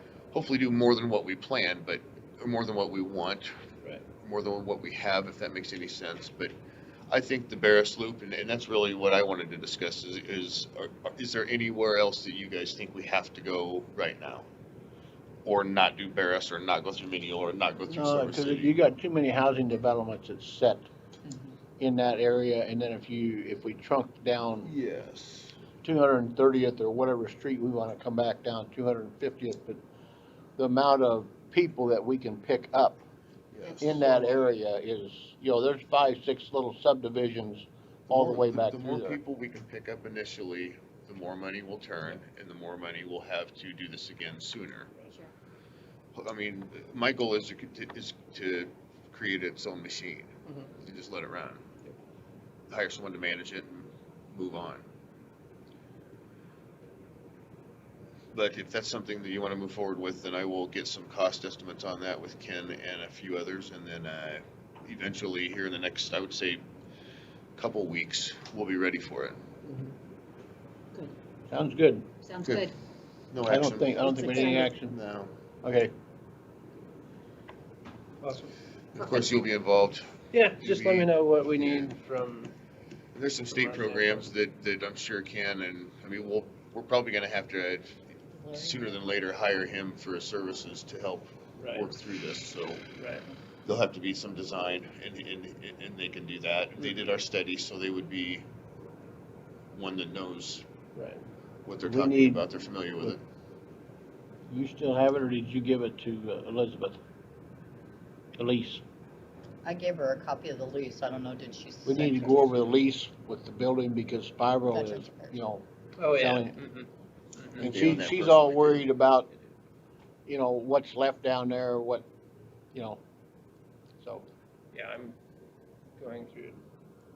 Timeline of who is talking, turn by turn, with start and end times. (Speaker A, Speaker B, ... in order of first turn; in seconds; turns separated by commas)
Speaker A: 0.3-3.5, Speaker A: 4.2-6.5, Speaker A: 7.1-14.5, Speaker A: 15.4-18.7, Speaker B: 17.9-20.9, Speaker B: 21.8-24.7, Speaker A: 24.6-25.6, Speaker B: 25.8-29.8, Speaker B: 30.6-33.0, Speaker A: 33.5-34.2, Speaker C: 33.6-34.1, Speaker B: 33.8-39.2, Speaker A: 38.1-44.9, Speaker A: 46.1-51.6, Speaker A: 52.7-54.8, Speaker A: 58.3-66.6, Speaker A: 67.5-69.4, Speaker B: 71.5-72.1, Speaker C: 72.2-72.7, Speaker A: 72.4-72.7, Speaker A: 73.3-75.3, Speaker B: 73.5-74.9, Speaker C: 74.1-74.7, Speaker B: 75.6-75.9, Speaker D: 78.2-78.5, Speaker A: 78.9-80.1, Speaker C: 79.0-79.4, Speaker D: 80.3-82.5, Speaker A: 80.6-81.9, Speaker A: 83.1-87.9, Speaker D: 83.4-84.3, Speaker E: 88.3-89.0, Speaker A: 88.5-92.8, Speaker D: 91.6-91.9, Speaker D: 93.0-93.2, Speaker A: 93.7-98.5, Speaker A: 99.7-100.6, Speaker D: 100.9-101.2, Speaker A: 101.6-103.2, Speaker B: 101.9-102.4, Speaker B: 104.5-107.0, Speaker B: 108.4-108.8, Speaker E: 109.6-112.5, Speaker B: 111.8-116.6, Speaker E: 114.7-115.3, Speaker D: 116.0-117.6, Speaker B: 117.6-119.3, Speaker A: 117.6-118.9, Speaker B: 120.3-122.0, Speaker B: 122.7-123.0, Speaker B: 124.0-124.3, Speaker D: 124.7-125.2, Speaker D: 126.0-126.6